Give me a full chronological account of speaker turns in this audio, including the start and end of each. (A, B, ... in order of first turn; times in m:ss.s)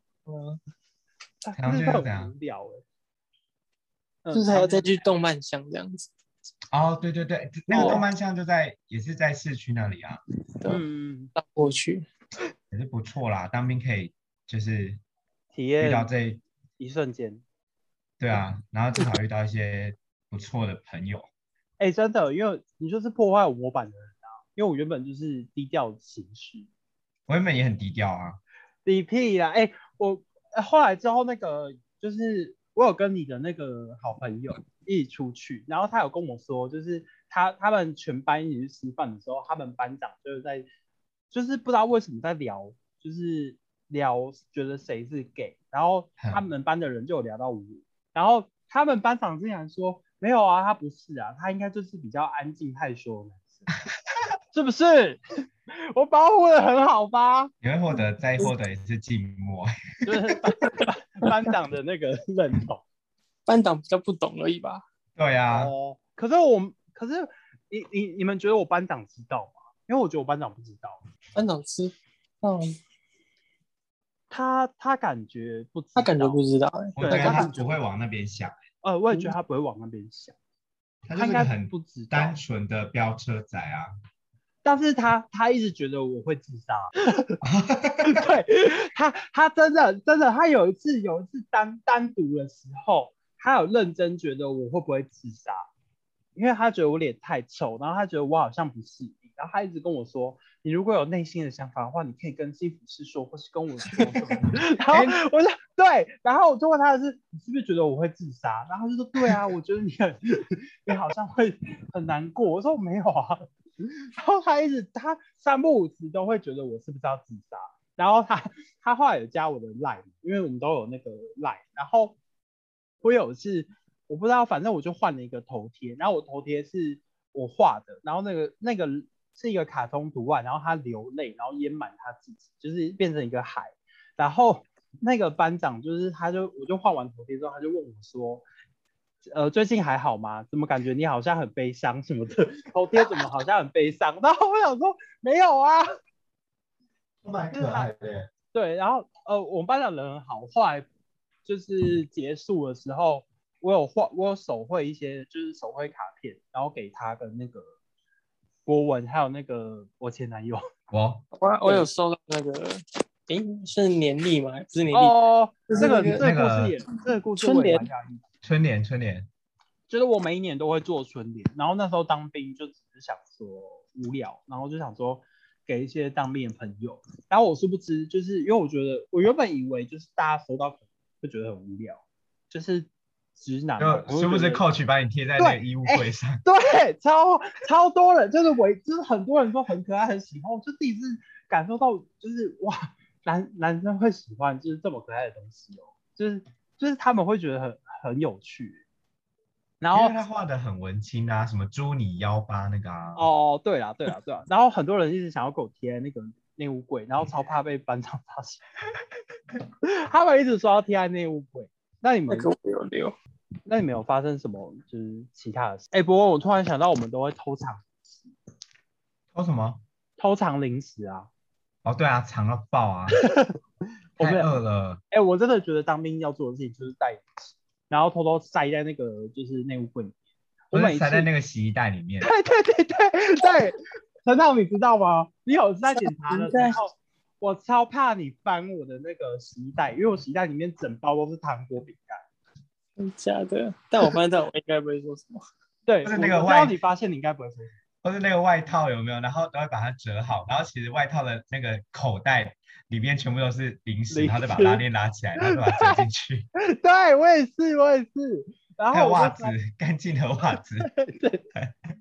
0:00.3-0:00.6 A
0:01.4-0:02.8 B
0:01.6-0:02.3 C
0:04.2-0:04.9 B
0:04.3-0:06.1 A
0:06.7-0:10.2 C
0:07.7-0:08.0 A
0:07.7-0:08.0 B
0:10.7-0:11.3 B
0:11.4-0:12.1 A
0:12.7-0:15.0 C
0:15.5-0:16.1 B
0:15.8-0:16.4 C
0:16.8-0:17.4 B
0:18.2-0:21.3 C
0:21.8-0:26.7 B
0:27.3-0:28.4 C
0:28.8-0:40.7 B
0:41.3-0:53.7 B
0:54.5-0:57.5 B
0:57.6-1:00.1 C
1:00.1-1:02.8 B
1:03.5-1:04.8 A
1:05.2-1:05.7 C
1:05.5-1:11.0 B
1:11.4-1:12.8 A
1:14.3-1:16.4 B
1:16.0-1:17.5 A
1:17.0-1:18.6 C
1:17.0-1:17.8 B
1:18.8-1:20.4 B
1:21.1-1:23.9 C
1:21.2-1:22.4 B
1:24.6-1:27.4 B
1:27.4-1:28.2 C
1:28.0-1:35.7 B
1:36.4-2:02.2 B
1:44.9-1:45.2 C
2:03.0-2:18.4 B
2:19.3-2:25.9 B
2:27.2-2:28.3 C
2:27.5-2:27.9 B
2:28.5-2:30.9 B
2:31.4-2:37.7 B
2:38.7-2:40.6 B
2:40.9-2:41.2 C
2:41.3-2:45.2 A
2:44.9-2:48.2 B
2:45.7-2:46.3 A
2:46.2-2:46.8 C
2:47.4-2:47.9 A
2:48.4-2:49.3 C
2:49.9-3:04.6 B
3:03.8-3:06.4 C
3:05.4-3:18.8 B
3:19.8-3:20.2 B
3:19.9-3:23.2 C
3:23.2-3:28.6 B
3:29.8-3:32.5 B
3:32.3-3:33.2 A
3:33.7-3:38.3 B
3:39.3-3:39.8 C
3:40.2-3:41.3 B
3:41.8-3:43.2 C
3:43.2-3:43.6 B
3:44.2-3:44.5 B
3:44.2-3:45.0 C
3:45.1-3:50.2 B
3:50.7-3:51.3 B
3:50.7-3:52.3 C
3:52.2-4:02.2 B
3:55.9-3:56.8 A
4:03.0-4:05.4 A
4:05.9-4:07.8 B
4:06.0-4:06.7 C
4:08.0-4:16.5 C
4:14.1-4:14.8 B
4:15.4-4:16.0 B
4:16.7-4:19.6 B
4:18.9-4:20.9 C
4:20.8-4:21.4 B